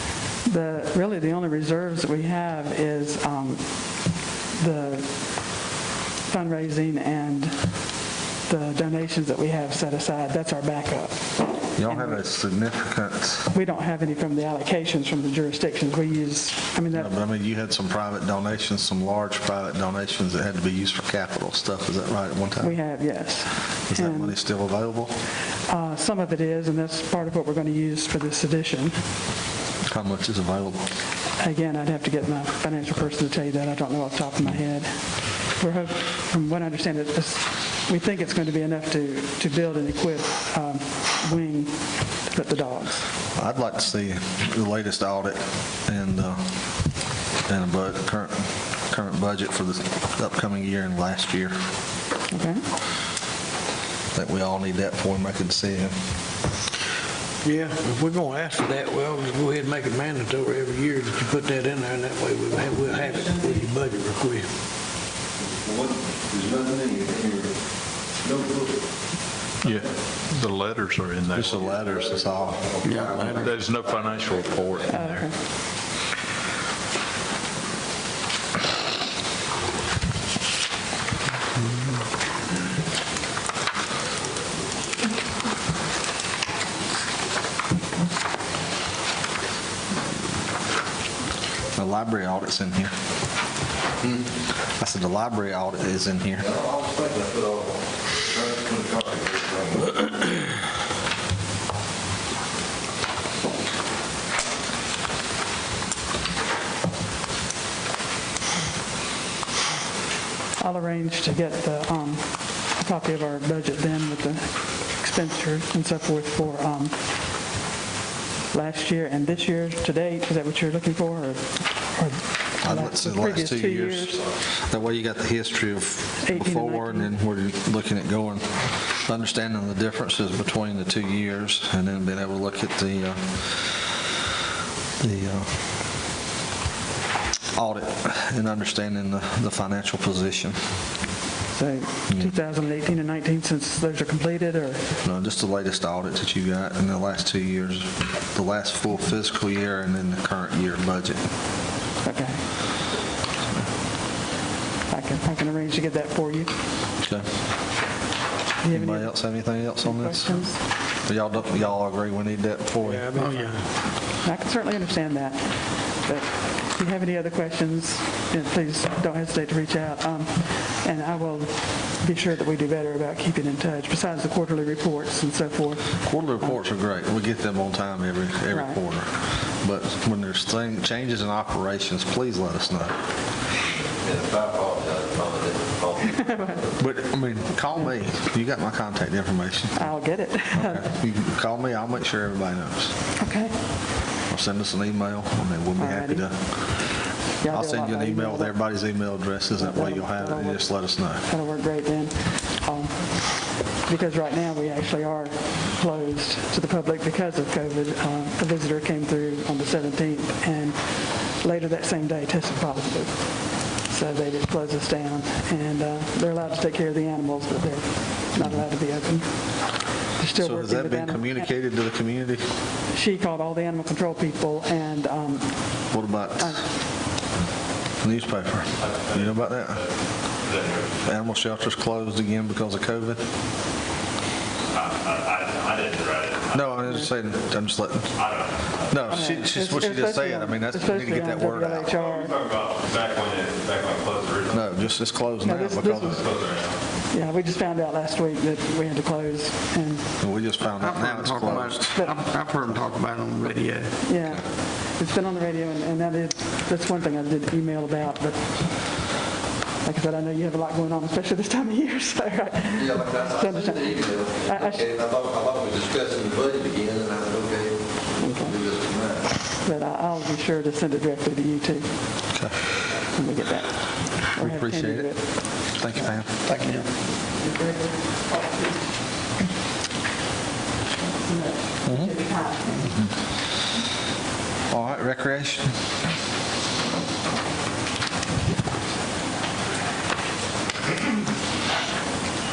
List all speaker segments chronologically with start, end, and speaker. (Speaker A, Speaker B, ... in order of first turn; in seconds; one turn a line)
Speaker A: 0.4-3.6
Speaker A: 4.5-5.1
Speaker A: 6.3-7.7
Speaker A: 8.4-12.2
Speaker B: 11.7-13.5
Speaker A: 13.5-17.1
Speaker B: 16.9-22.8
Speaker A: 22.6-24.4
Speaker B: 23.9-25.1
Speaker A: 25.7-28.9
Speaker B: 29.9-30.9
Speaker A: 31.4-43.0
Speaker B: 43.3-46.5
Speaker B: 47.4-51.5
Speaker A: 52.3-52.6
Speaker B: 54.1-56.0
Speaker C: 57.4-64.5
Speaker D: 65.7-67.5
Speaker D: 68.2-68.7
Speaker E: 69.6-71.7
Speaker B: 71.3-72.7
Speaker C: 72.8-73.5
Speaker E: 73.2-75.3
Speaker A: 74.8-75.3
Speaker B: 91.8-92.9
Speaker B: 94.7-96.5
Speaker D: 96.4-100.1
Speaker A: 110.6-117.0
Speaker A: 118.5-124.2
Speaker B: 122.6-133.9
Speaker A: 126.2-127.1
Speaker B: 135.0-135.5
Speaker B: 137.5-140.6
Speaker A: 141.5-144.8
Speaker B: 145.0-151.2
Speaker A: 152.0-152.4
Speaker A: 154.9-156.5
Speaker B: 157.0-157.3
Speaker A: 158.6-160.6
Speaker B: 158.7-160.4
Speaker B: 161.0-163.3
Speaker C: 162.8-163.6
Speaker A: 164.1-176.5
Speaker B: 176.0-182.9
Speaker A: 178.5-178.8
Speaker D: 184.0-186.6
Speaker A: 186.1-186.6
Speaker B: 186.8-189.9
Speaker A: 189.8-190.9
Speaker B: 190.5-192.9
Speaker A: 193.2-193.8
Speaker B: 194.1-197.0
Speaker A: 195.8-198.6
Speaker B: 197.5-201.2
Speaker A: 199.6-221.5
Speaker B: 220.4-222.4
Speaker A: 222.9-226.7
Speaker B: 225.9-226.6
Speaker B: 228.0-229.8
Speaker F: 228.8-230.9
Speaker B: 231.0-233.2
Speaker F: 234.7-236.7
Speaker B: 236.5-238.1
Speaker F: 238.1-239.1
Speaker B: 238.9-241.9
Speaker A: 239.1-242.3
Speaker F: 241.9-244.7
Speaker B: 244.5-246.2
Speaker A: 245.4-246.2
Speaker F: 246.1-246.8
Speaker A: 247.1-250.4
Speaker B: 250.2-252.0
Speaker C: 250.7-253.9
Speaker A: 251.9-252.2
Speaker B: 252.5-252.8
Speaker A: 254.0-259.0
Speaker A: 259.8-264.9
Speaker D: 262.8-267.8
Speaker A: 268.2-268.6
Speaker D: 268.4-269.2
Speaker A: 269.6-272.2
Speaker B: 272.3-272.6
Speaker A: 273.0-275.6
Speaker B: 274.2-276.3
Speaker C: 276.4-276.9
Speaker A: 277.3-278.8
Speaker A: 281.0-282.8
Speaker B: 281.8-282.1
Speaker B: 282.8-283.1
Speaker B: 284.7-285.8